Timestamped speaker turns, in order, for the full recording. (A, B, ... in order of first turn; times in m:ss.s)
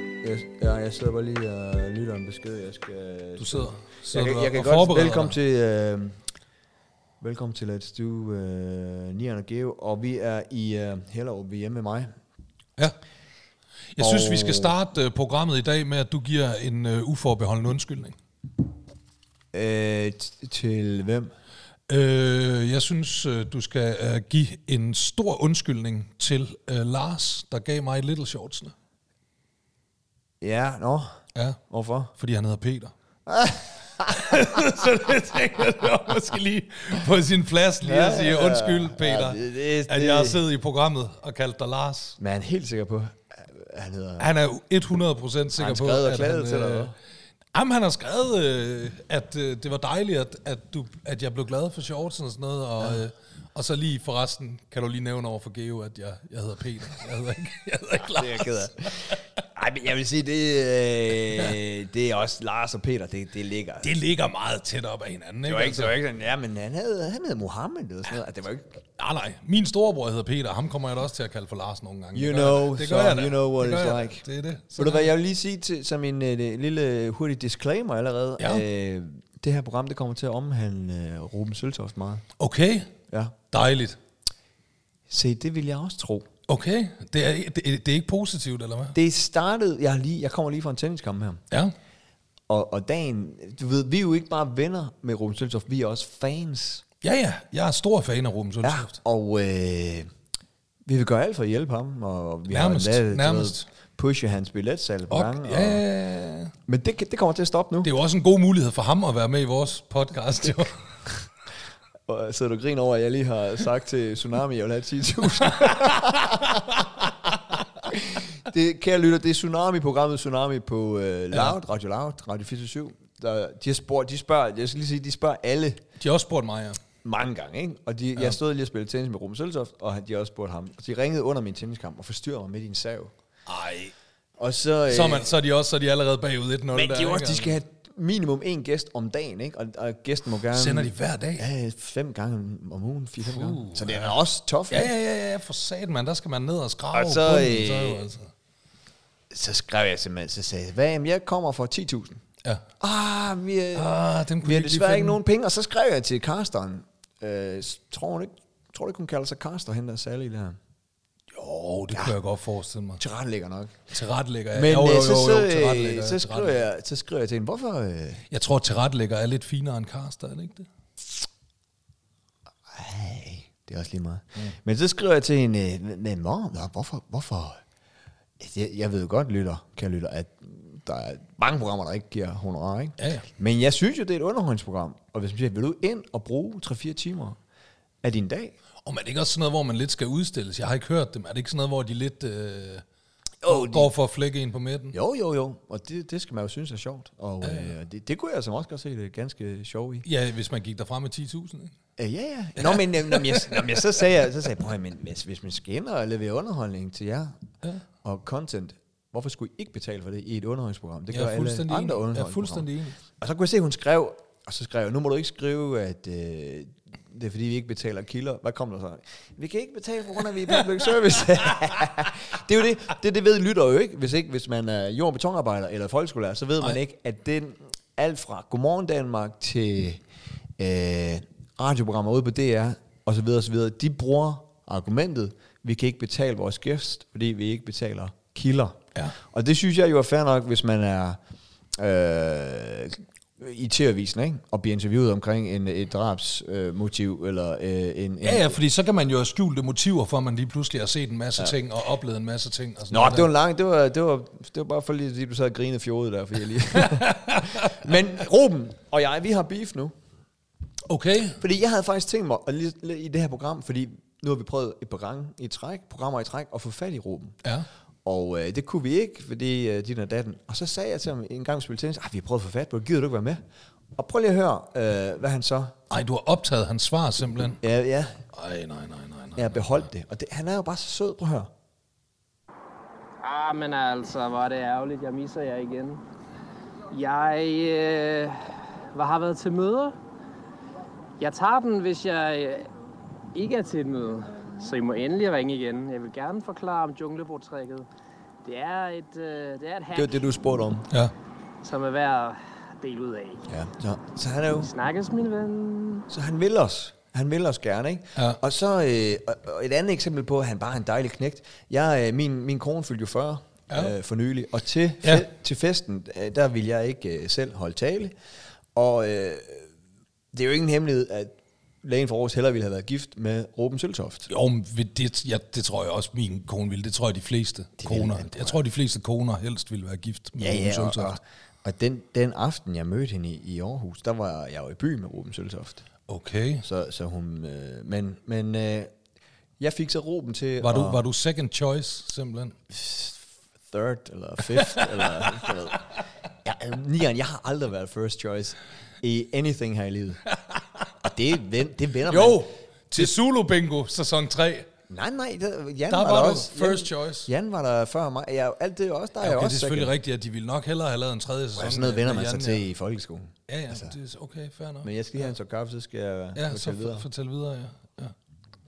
0:00.2-0:06.2 A
0:03.4-0:05.4 B
0:07.2-0:12.1 A
0:14.0-0:18.2 B
0:14.0-0:14.7 A
0:19.5-0:21.3 A
0:21.9-0:28.7 B
0:30.4-0:32.1 A
0:32.2-0:32.9 B
0:33.3-0:34.6 A
0:34.1-0:42.2 B
0:37.8-0:40.4 A
0:42.2-0:44.3 A
0:44.2-0:46.9 B
0:45.6-0:47.0 A
0:47.5-0:59.2 B
0:58.0-1:03.9 A
1:03.8-1:06.0 B
1:05.5-1:08.8 A
1:09.0-1:15.1 B
1:12.1-1:22.2 A
1:22.4-1:22.9 B
1:23.1-1:23.4 A
1:23.5-1:24.0 B
1:25.1-1:26.3 A
1:26.5-1:29.0 B
1:28.9-1:31.4 A
1:32.5-1:36.8 A
1:37.0-1:38.9 B
1:38.6-1:40.1 A
1:40.8-1:45.8 A
1:42.5-1:43.7 B
1:45.1-1:46.5 B
1:46.7-1:47.9 A
1:47.8-1:50.8 B
1:52.1-1:56.6 A
1:55.8-1:56.1 B
1:57.8-2:05.8 A
2:06.0-2:06.8 B
2:07.0-2:13.1 A
2:13.5-2:13.9 B
2:14.4-2:15.3 A
2:14.9-2:17.6 B
2:16.7-2:24.9 A
2:20.5-2:21.4 B
2:23.3-2:24.1 B
2:24.7-2:28.3 B
2:26.9-2:28.0 A
2:29.3-2:32.2 A
2:32.8-2:33.9 A
2:33.8-2:35.2 B
2:34.4-2:40.6 A
2:41.3-2:43.0 B
2:43.0-2:43.9 A
2:43.9-2:46.6 B
2:44.5-2:48.2 A
2:48.3-2:50.7 B
2:52.7-2:57.6 A
2:58.4-3:07.4 A
3:03.0-3:03.3 B
3:08.0-3:08.6 A
3:08.8-3:12.8 B
3:13.4-3:13.9 A
3:13.5-3:15.0 B
3:14.9-3:20.1 A
3:17.4-3:17.7 B
3:20.0-3:21.7 B
3:22.0-3:27.4 A
3:22.7-3:23.6 B
3:28.0-3:50.0 A
3:31.1-3:33.0 B
3:50.6-4:01.2 A
4:01.8-4:08.6 A
4:08.2-4:13.3 B
4:12.9-4:19.9 A
4:16.8-4:17.8 B
4:20.9-4:21.4 B
4:21.4-4:27.4 A
4:28.0-4:33.4 A
4:34.0-4:35.8 A
4:35.9-4:37.6 B
4:37.6-4:38.2 A
4:38.3-4:39.8 B
4:39.4-4:41.5 A
4:43.2-4:46.0 C
4:46.9-4:50.0 C
4:51.2-4:52.7 C
4:53.3-4:57.9 C
4:58.4-5:00.2 C
4:59.9-5:00.9 A
5:01.6-5:03.5 C
5:03.5-5:04.7 A
5:04.6-5:06.1 C
5:06.1-5:18.2 A
5:18.8-5:19.7 A
5:20.3-5:24.3 A
5:24.3-5:31.1 B
5:27.8-5:28.6 A
5:30.4-5:35.8 A
5:36.1-5:36.7 B
5:36.6-5:38.9 A
5:39.6-5:41.0 A
5:40.6-5:42.6 B
5:42.7-5:45.9 A
5:44.6-5:45.5 B
5:46.4-5:50.2 A
5:51.0-5:53.1 A
5:52.1-5:54.7 B
5:54.9-5:59.9 A
5:55.9-5:57.3 B
5:59.2-6:02.7 B
6:01.6-6:03.9 A
6:03.5-6:05.2 B
6:04.8-6:07.1 A
6:06.4-6:08.1 B